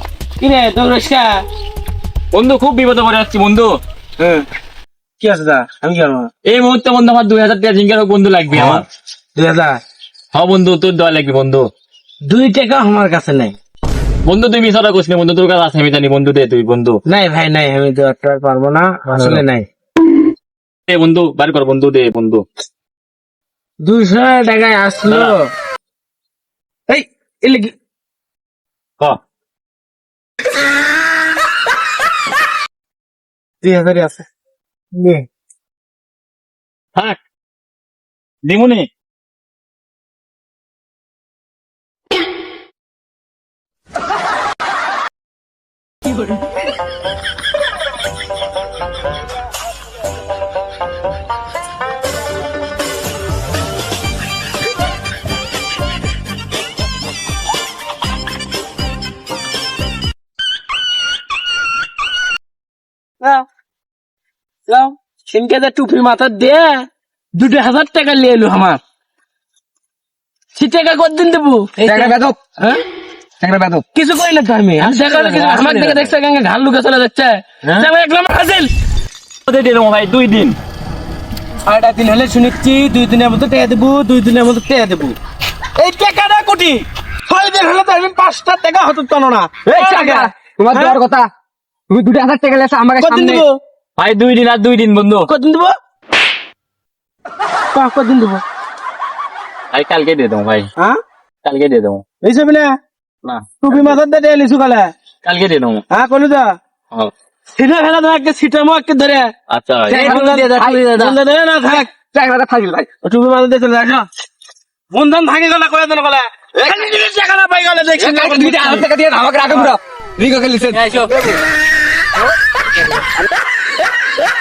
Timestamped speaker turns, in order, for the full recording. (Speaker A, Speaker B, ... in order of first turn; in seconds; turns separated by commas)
Speaker A: 0.4-1.4, Speaker B: 2.3-3.7, Speaker A: 4.2-4.4, Speaker A: 5.2-6.3, Speaker B: 6.5-8.8, Speaker A: 8.5-8.8, Speaker A: 9.3-9.8, Speaker B: 10.3-11.7, Speaker A: 12.3-13.6, Speaker B: 14.2-17.0, Speaker A: 17.1-19.7, Speaker B: 19.1-19.4, Speaker B: 20.9-22.4, Speaker A: 23.8-25.5, Speaker B: 25.1-25.4, Speaker A: 26.9-27.7, Speaker A: 33.6-34.2, Speaker A: 34.9-35.2, Speaker B: 38.4-38.9, Speaker A: 64.7-68.8, Speaker A: 70.5-72.8, Speaker C: 71.8-72.4, Speaker C: 73.4-73.8, Speaker A: 73.9-78.7, Speaker B: 74.8-76.1, Speaker B: 79.5-80.6, Speaker A: 81.6-85.2, Speaker A: 85.8-91.0, Speaker C: 89.7-91.3, Speaker C: 91.9-93.4, Speaker A: 93.0-93.6, Speaker B: 94.0-95.3, Speaker A: 95.3-95.7, Speaker A: 97.7-98.4, Speaker B: 99.7-100.7, Speaker B: 101.4-102.0, Speaker A: 102.2-102.7, Speaker B: 103.2-104.0, Speaker A: 103.6-104.9, Speaker B: 105.2-105.8, Speaker A: 105.9-106.5, Speaker A: 107.5-109.3, Speaker B: 109.5-110.3, Speaker C: 109.9-111.1, Speaker A: 109.9-111.9, Speaker C: 111.9-112.9, Speaker A: 113.0-114.1, Speaker A: 114.9-118.9, Speaker C: 118.0-121.0, Speaker A: 120.8-121.3